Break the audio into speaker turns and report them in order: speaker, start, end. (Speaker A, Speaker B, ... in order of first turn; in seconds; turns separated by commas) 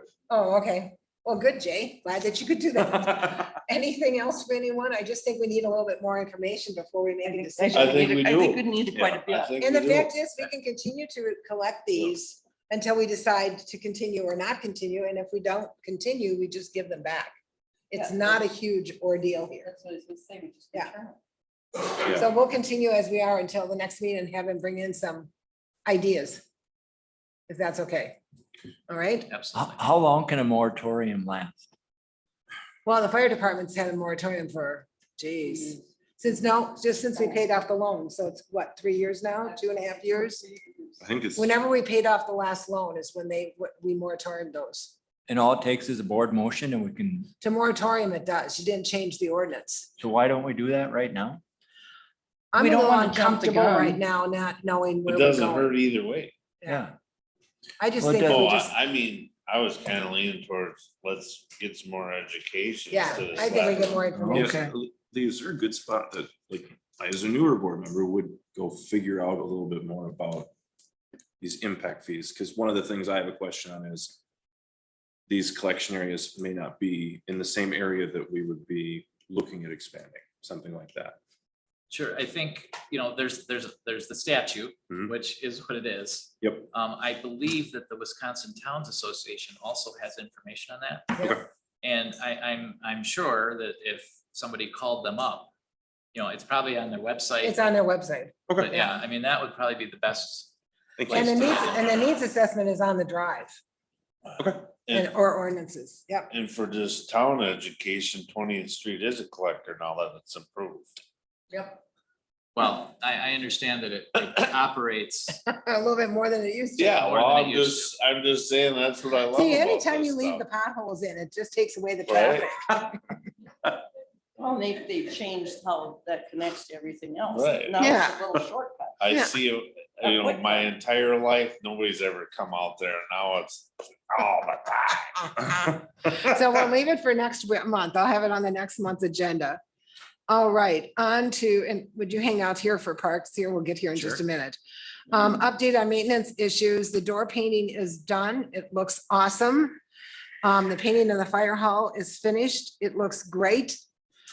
Speaker A: 0.3-8.2, Speaker B: 7.2-9.6, Speaker C: 7.7-10.5, Speaker D: 8.9-9.2, Speaker A: 9.6-17.3, Speaker A: 17.9-19.7, Speaker B: 17.9-18.5, Speaker B: 19.5-21.2, Speaker A: 21.8-25.3, Speaker A: 25.9-26.4, Speaker A: 27.5-28.2, Speaker A: 28.9-29.3, Speaker E: 29.3-29.9, Speaker F: 29.5-31.7, Speaker A: 32.8-40.4, Speaker B: 35.5-35.7, Speaker D: 41.0-41.5, Speaker A: 41.4-44.9, Speaker F: 45.3-47.3, Speaker A: 47.4-49.9, Speaker F: 50.0-51.4, Speaker A: 52.5-55.7, Speaker B: 52.6-54.0, Speaker C: 55.1-56.3, Speaker F: 56.6-56.9, Speaker A: 57.8-58.7, Speaker F: 58.0-58.6, Speaker C: 58.3-64.0, Speaker A: 62.9-64.5, Speaker F: 64.1-64.7, Speaker D: 64.3-70.5, Speaker D: 71.4-74.2, Speaker D: 75.3-81.2, Speaker E: 81.9-91.2, Speaker E: 91.8-95.5, Speaker E: 96.1-97.6, Speaker A: 97.4-98.4, Speaker E: 98.6-100.5, Speaker D: 101.0-101.4, Speaker E: 101.0-101.9, Speaker A: 101.1-103.6, Speaker D: 104.4-104.7, Speaker A: 104.9-106.3, Speaker C: 106.3-110.9, Speaker A: 111.5-111.8, Speaker E: 112.6-115.4, Speaker A: 115.5-117.0, Speaker C: 116.8-120.4, Speaker E: 116.9-117.9, Speaker A: 119.3-123.0, Speaker C: 122.1-122.5, Speaker B: 124.4-129.2, Speaker C: 127.3-127.9, Speaker A: 127.8-128.2, Speaker C: 129.0-135.3, Speaker B: 130.0-130.7, Speaker A: 135.2-139.6, Speaker A: 140.3-144.6, Speaker A: 145.1-149.8, Speaker A: 150.4-153.8